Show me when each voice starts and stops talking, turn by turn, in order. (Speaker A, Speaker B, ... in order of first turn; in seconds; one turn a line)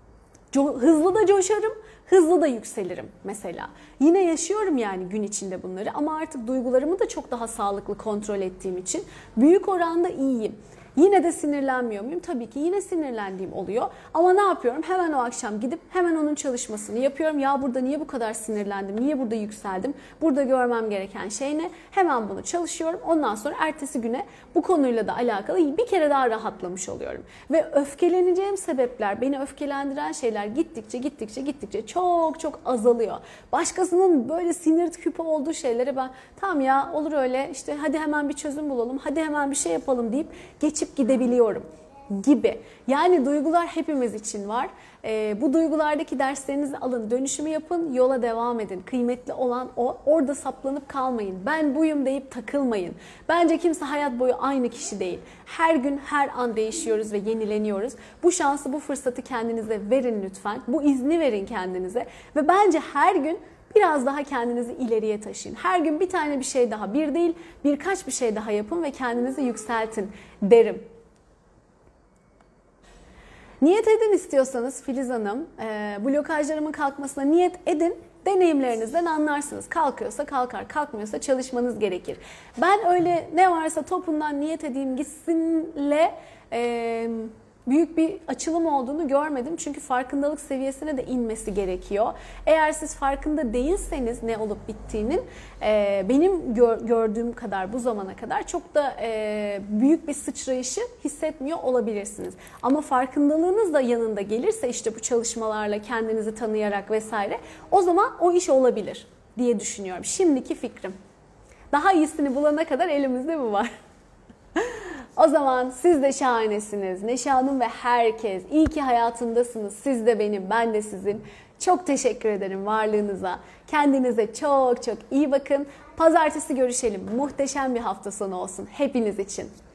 Speaker A: 0.5-70.9
Speaker A: 73.6-111.0
Speaker A: 111.7-113.7
Speaker A: 114.6-129.5